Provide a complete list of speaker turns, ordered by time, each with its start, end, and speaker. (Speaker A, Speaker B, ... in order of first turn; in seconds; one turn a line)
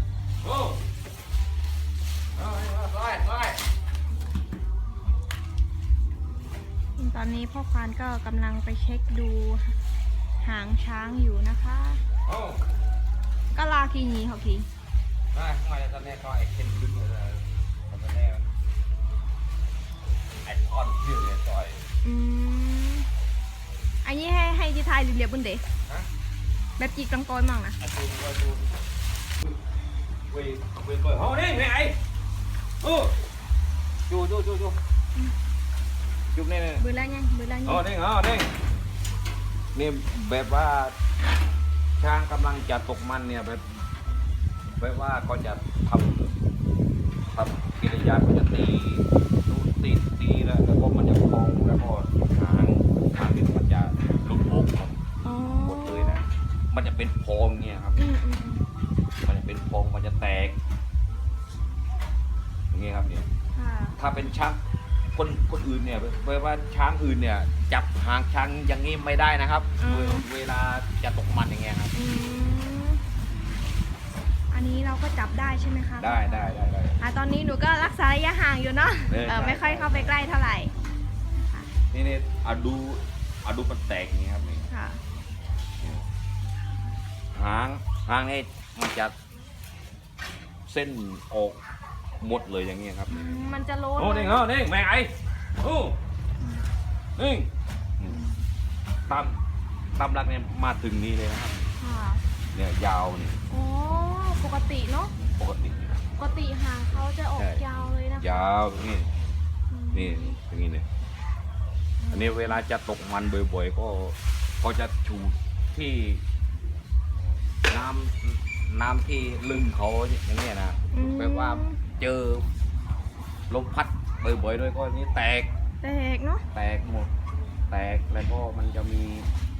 Speaker A: 0.4-0.8
Speaker A: 2.4-3.6
Speaker B: 7.0-9.8
Speaker B: 10.4-12.0
Speaker A: 12.2-12.6
Speaker B: 13.5-14.7
Speaker A: 15.3-18.5
Speaker A: 20.4-21.8
Speaker B: 22.0-23.1
Speaker B: 24.0-25.6
Speaker B: 26.8-27.8
Speaker A: 27.8-28.7
Speaker A: 30.3-31.9
Speaker A: 32.8-33.1
Speaker A: 34.1-34.8
Speaker A: 36.3-36.8
Speaker B: 36.8-37.9
Speaker A: 37.6-38.5
Speaker A: 39.7-41.0
Speaker A: 42.0-43.7
Speaker A: 44.7-46.3
Speaker A: 47.3-54.9
Speaker B: 55.2-56.2
Speaker A: 55.5-58.0
Speaker B: 58.0-58.6
Speaker A: 59.2-60.5
Speaker A: 62.7-63.3
Speaker B: 63.5-64.0
Speaker A: 64.0-64.6
Speaker A: 65.1-71.9
Speaker B: 69.8-70.3
Speaker B: 71.9-73.0
Speaker B: 74.5-76.5
Speaker A: 76.0-77.0
Speaker B: 77.0-80.7
Speaker A: 79.1-80.2
Speaker B: 81.3-81.7
Speaker A: 81.9-84.7
Speaker B: 84.7-85.0
Speaker A: 87.3-89.1
Speaker A: 90.7-91.6
Speaker A: 92.2-96.0
Speaker B: 93.1-94.4
Speaker A: 97.2-98.2
Speaker B: 98.1-98.4
Speaker A: 99.1-99.4
Speaker A: 100.0-101.7
Speaker B: 101.8-102.2
Speaker A: 102.5-103.3
Speaker B: 103.5-105.1
Speaker A: 105.4-106.0
Speaker B: 106.2-108.5
Speaker A: 107.3-107.6
Speaker A: 108.2-109.1
Speaker B: 109.7-110.4
Speaker A: 109.9-110.8
Speaker B: 112.0-112.6
Speaker A: 112.1-116.2
Speaker A: 117.7-122.5
Speaker B: 120.9-121.8
Speaker A: 123.5-125.5
Speaker B: 125.8-126.4
Speaker A: 126.5-127.1
Speaker A: 127.7-129.3